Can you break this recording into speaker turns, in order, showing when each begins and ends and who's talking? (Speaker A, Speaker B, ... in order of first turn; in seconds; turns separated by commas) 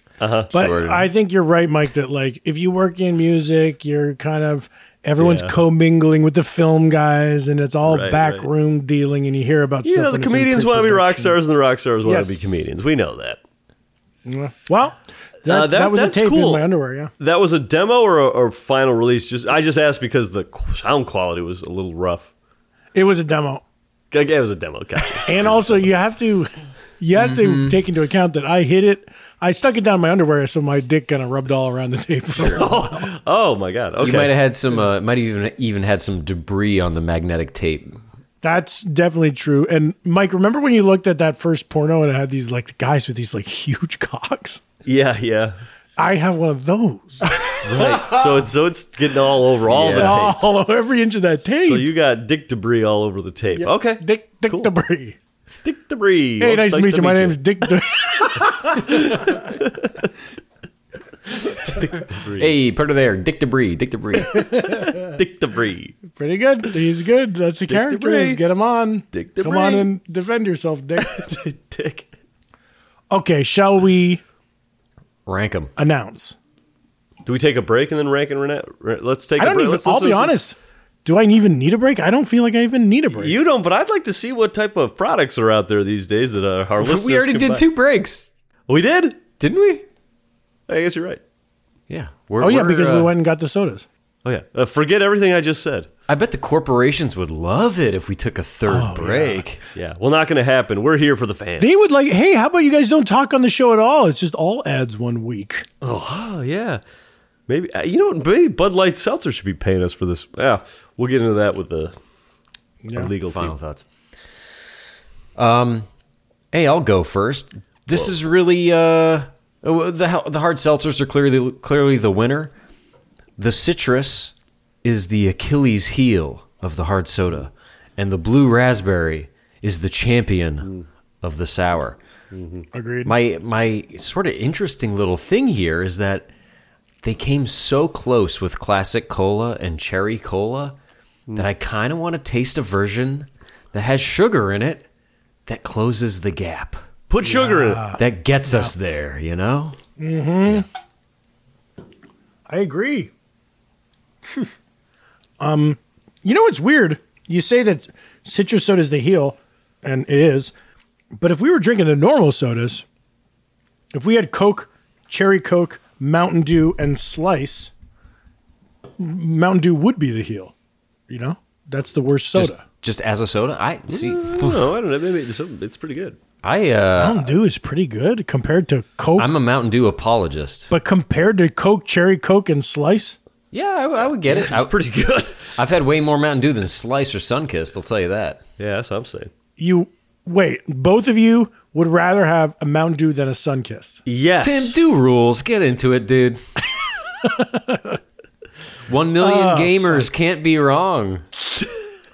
Speaker A: 0.2-0.5, Speaker B: 0.5-1.1, Speaker C: 0.5-11.4, Speaker A: 5.2-5.5, Speaker A: 7.8-8.5, Speaker A: 9.8-13.4, Speaker C: 12.0-12.7, Speaker C: 14.3-17.1, Speaker A: 15.4-16.7, Speaker A: 17.2-22.3, Speaker C: 22.9-23.6, Speaker A: 24.1-25.8, Speaker C: 25.3-33.1, Speaker B: 27.2-27.8, Speaker A: 32.4-34.3, Speaker B: 34.0-38.0, Speaker C: 38.4-44.6, Speaker A: 44.9-45.6, Speaker C: 46.0-48.4, Speaker B: 47.6-48.1, Speaker A: 47.7-50.4, Speaker B: 49.7-50.2, Speaker C: 49.9-51.9, Speaker A: 51.5-54.7, Speaker C: 53.5-55.2, Speaker A: 55.6-57.4, Speaker C: 56.4-59.4, Speaker A: 58.9-60.0, Speaker B: 61.7-64.5, Speaker A: 61.9-62.5, Speaker C: 64.2-65.2, Speaker A: 65.0-66.0, Speaker C: 66.1-71.3, Speaker A: 67.7-68.4, Speaker A: 69.1-69.9, Speaker A: 71.0-72.1, Speaker C: 73.1-74.2, Speaker B: 75.3-75.7, Speaker C: 75.8-76.4, Speaker A: 77.3-80.3, Speaker C: 79.4-83.4, Speaker A: 83.1-87.7, Speaker B: 86.8-88.3, Speaker A: 88.7-89.2, Speaker B: 89.4-89.8, Speaker A: 90.7-91.2, Speaker B: 91.9-93.1, Speaker C: 92.4-93.8, Speaker A: 94.2-95.9, Speaker B: 96.1-99.6, Speaker C: 98.7-99.4, Speaker A: 99.8-101.7, Speaker C: 101.6-105.7, Speaker A: 105.8-106.8, Speaker A: 107.5-112.0, Speaker C: 112.8-113.1, Speaker A: 112.9-113.5, Speaker B: 113.2-113.8, Speaker B: 115.4-115.9, Speaker B: 116.5-122.5, Speaker B: 123.4-130.7, Speaker B: 131.2-132.0, Speaker A: 132.3-132.7, Speaker C: 132.7-133.1, Speaker B: 133.1-136.3, Speaker B: 137.0-140.8, Speaker B: 141.4-144.9, Speaker B: 145.5-146.8, Speaker A: 147.1-147.8, Speaker C: 147.2-148.7, Speaker B: 148.0-149.8, Speaker C: 150.0-150.7, Speaker C: 152.5-153.1, Speaker C: 155.4-160.5, Speaker C: 161.2-162.8, Speaker C: 163.9-167.7, Speaker C: 169.0-170.5, Speaker C: 171.1-172.6, Speaker B: 172.3-174.7, Speaker A: 173.9-176.2, Speaker B: 176.4-177.3, Speaker C: 177.0-179.3, Speaker B: 179.2-180.7, Speaker C: 180.7-183.2, Speaker B: 183.5-184.8, Speaker A: 184.3-185.4, Speaker B: 185.5-188.4, Speaker A: 188.6-189.3, Speaker C: 189.6-194.0, Speaker A: 194.1-194.8, Speaker B: 194.4-196.4, Speaker C: 197.2-198.0, Speaker B: 198.9-201.2, Speaker C: 199.2-200.1